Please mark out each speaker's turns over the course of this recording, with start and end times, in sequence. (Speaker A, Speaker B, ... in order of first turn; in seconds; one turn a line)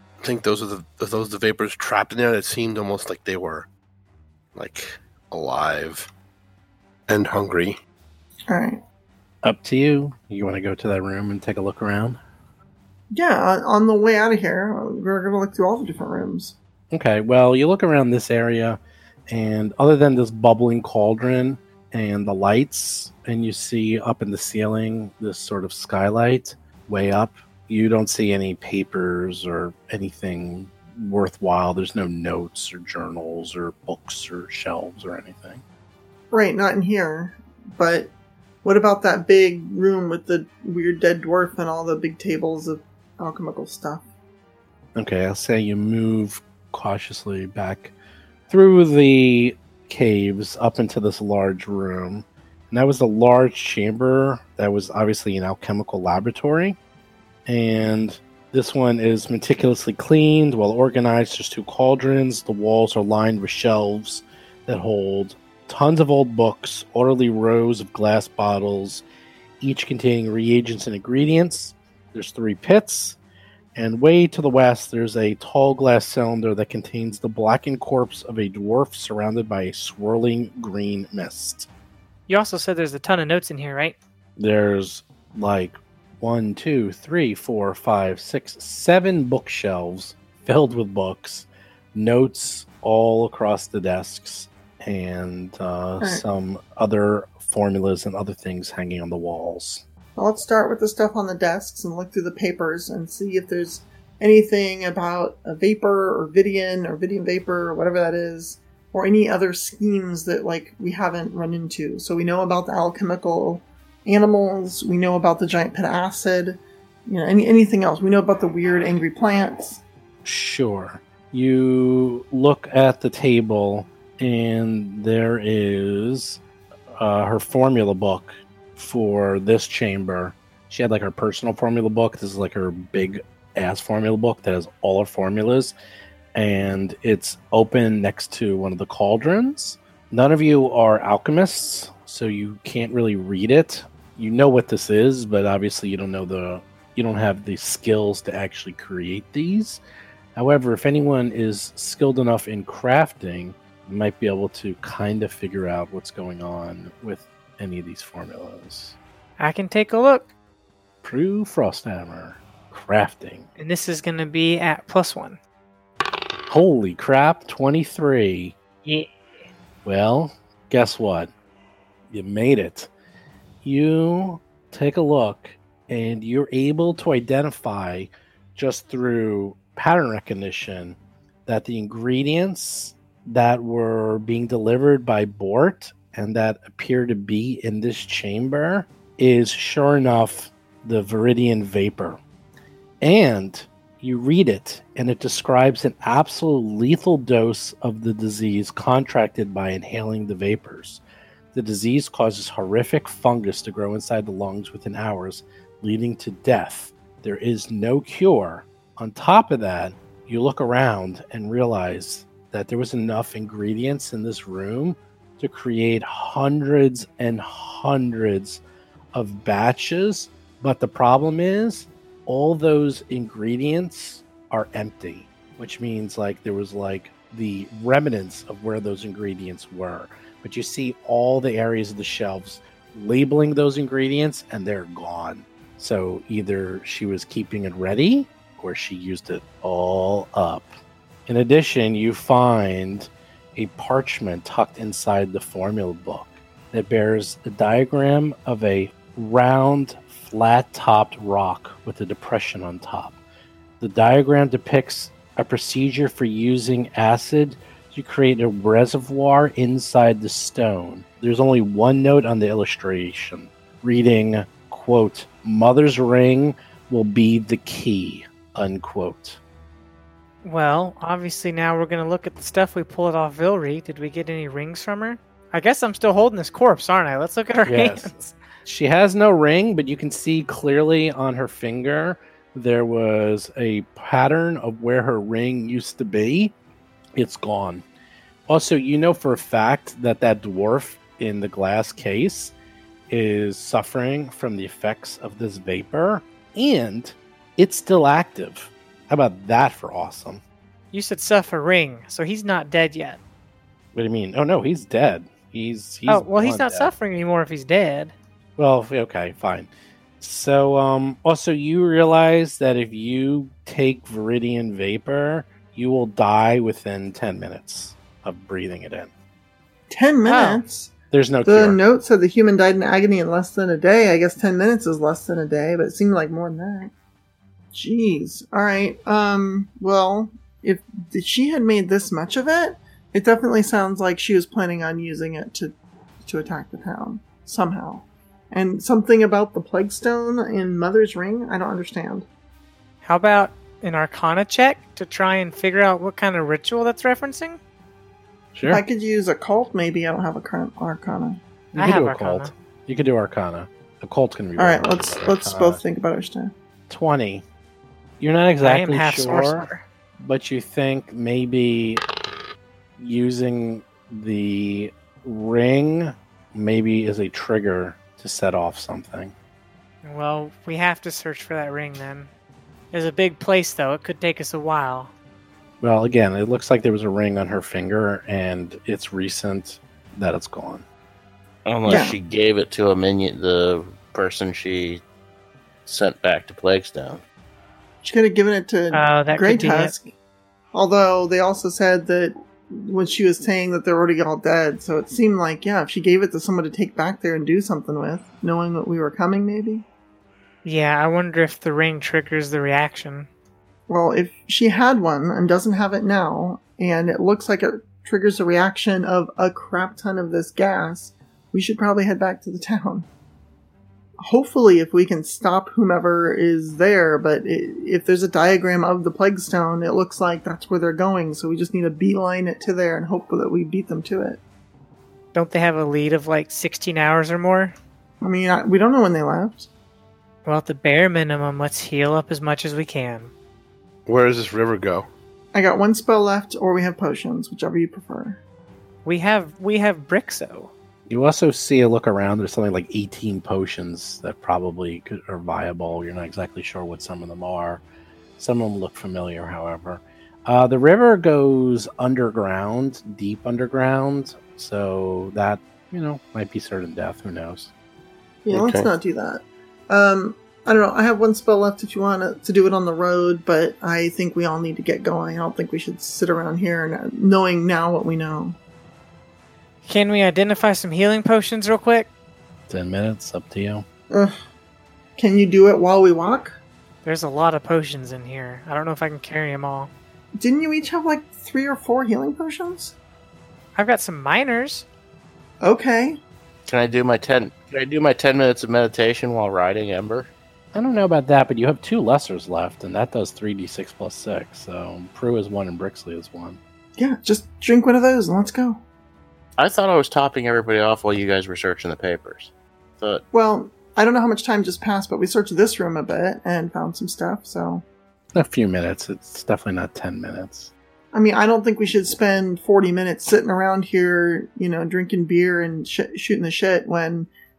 Speaker A: 0.2-3.7
Speaker A: 4.5-6.1
Speaker A: 7.1-7.8
Speaker B: 8.5-8.8
Speaker C: 9.4-12.2
Speaker B: 13.1-16.6
Speaker C: 16.9-35.6
Speaker B: 36.3-38.1
Speaker B: 38.6-44.0
Speaker C: 45.0-47.9
Speaker C: 48.5-56.8
Speaker C: 57.5-69.0
Speaker C: 69.6-73.2
Speaker C: 73.8-81.7
Speaker D: 82.3-84.0
Speaker C: 84.4-99.8
Speaker B: 100.2-119.8
Speaker C: 120.2-126.4
Speaker C: 126.9-135.8
Speaker C: 136.3-149.8
Speaker C: 150.3-159.0
Speaker D: 159.4-160.3
Speaker C: 161.0-163.5
Speaker D: 163.6-165.4
Speaker C: 166.5-168.6
Speaker C: 169.8-171.3
Speaker C: 172.1-172.9
Speaker C: 173.6-192.2
Speaker C: 193.0-201.0
Speaker C: 201.5-218.6
Speaker C: 219.1-240.8
Speaker C: 241.3-253.2
Speaker C: 253.8-269.4
Speaker D: 270.4-278.4
Speaker C: 277.7-286.6
Speaker C: 287.2-287.9
Speaker C: 288.5-292.6
Speaker C: 293.1-300.4
Speaker D: 300.9-303.2
Speaker C: 303.9-306.9
Speaker D: 306.1-308.1
Speaker C: 308.6-319.1
Speaker B: 319.9-320.9
Speaker D: 320.3-320.6
Speaker C: 321.1-321.8
Speaker B: 321.4-326.9
Speaker B: 327.7-342.3
Speaker D: 343.0-347.6
Speaker C: 348.5-348.8
Speaker B: 348.7-351.4
Speaker C: 351.7-355.8
Speaker D: 351.8-352.5
Speaker B: 354.6-356.5
Speaker C: 356.9-357.4
Speaker C: 358.2-362.0
Speaker D: 358.6-359.8
Speaker C: 363.0-369.3
Speaker D: 370.0-372.3
Speaker D: 372.9-375.1
Speaker C: 375.8-380.9
Speaker E: 381.7-385.0
Speaker B: 381.9-382.1
Speaker E: 385.9-387.2
Speaker B: 388.0-390.1
Speaker D: 388.9-389.9
Speaker B: 390.7-399.9
Speaker D: 400.6-403.3
Speaker B: 403.9-413.1
Speaker B: 414.2-424.4
Speaker D: 425.3-427.8
Speaker B: 428.2-429.7
Speaker D: 430.4-433.3
Speaker A: 434.1-435.1
Speaker B: 435.5-438.4
Speaker D: 439.1-440.7
Speaker C: 441.1-447.8
Speaker C: 448.4-457.7
Speaker B: 458.5-468.6
Speaker A: 458.5-458.9
Speaker D: 469.8-472.1
Speaker C: 472.7-473.9
Speaker B: 475.2-476.6
Speaker D: 477.0-479.9
Speaker B: 480.4-482.9
Speaker D: 483.8-484.9
Speaker B: 485.6-486.2
Speaker E: 486.7-490.3
Speaker C: 490.7-496.6
Speaker B: 497.0-498.8
Speaker E: 499.6-503.2
Speaker B: 503.3-507.9
Speaker C: 508.3-510.7
Speaker B: 511.1-517.3